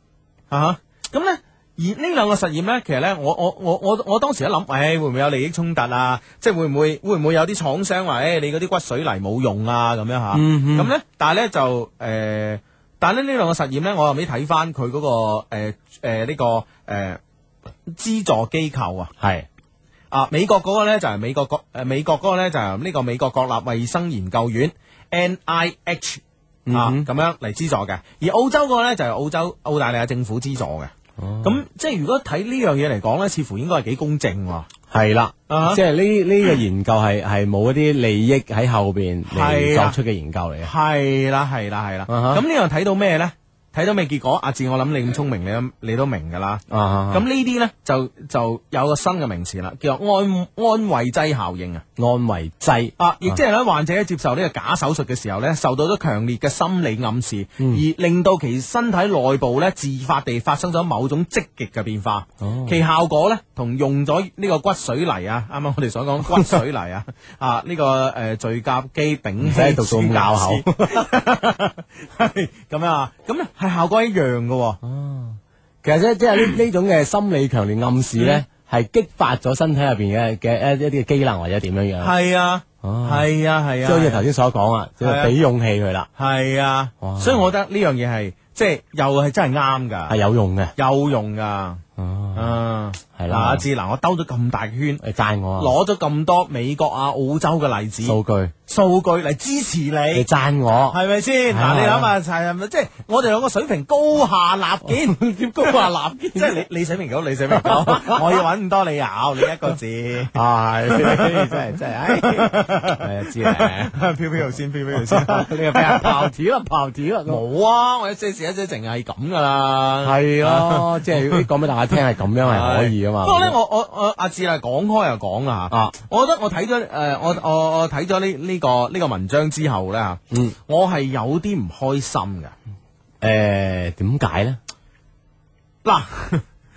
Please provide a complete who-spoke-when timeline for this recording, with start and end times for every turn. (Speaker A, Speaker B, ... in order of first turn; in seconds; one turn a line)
Speaker A: 0.5-17.2
Speaker B: 10.3-10.9
Speaker A: 17.9-19.1
Speaker B: 19.2-19.5
Speaker A: 20.1-30.9
Speaker B: 26.7-27.1
Speaker B: 31.2-31.6
Speaker A: 31.4-34.7
Speaker B: 34.9-40.7
Speaker A: 35.5-35.8
Speaker A: 39.3-40.0
Speaker A: 40.6-51.8
Speaker B: 42.1-42.4
Speaker B: 46.7-47.2
Speaker B: 52.0-53.4
Speaker A: 53.0-74.8
Speaker B: 62.4-62.8
Speaker B: 69.4-71.1
Speaker B: 74.8-82.1
Speaker A: 78.2-78.4
Speaker A: 82.0-84.2
Speaker B: 82.8-83.2
Speaker B: 83.8-86.1
Speaker A: 85.0-85.3
Speaker A: 86.2-90.1
Speaker B: 87.0-87.5
Speaker B: 90.1-90.7
Speaker A: 90.8-91.8
Speaker B: 92.0-92.6
Speaker A: 92.3-95.0
Speaker B: 93.2-93.6
Speaker B: 95.0-95.7
Speaker A: 95.6-100.3
Speaker B: 98.0-98.5
Speaker B: 100.1-101.0
Speaker A: 100.9-110.3
Speaker B: 101.5-102.1
Speaker B: 104.8-106.7
Speaker B: 107.5-108.4
Speaker B: 110.3-113.9
Speaker A: 110.9-116.3
Speaker B: 114.9-117.4
Speaker A: 117.2-121.5
Speaker B: 120.0-123.5
Speaker A: 122.4-132.5
Speaker B: 130.3-130.6
Speaker B: 133.2-134.6
Speaker A: 135.8-136.4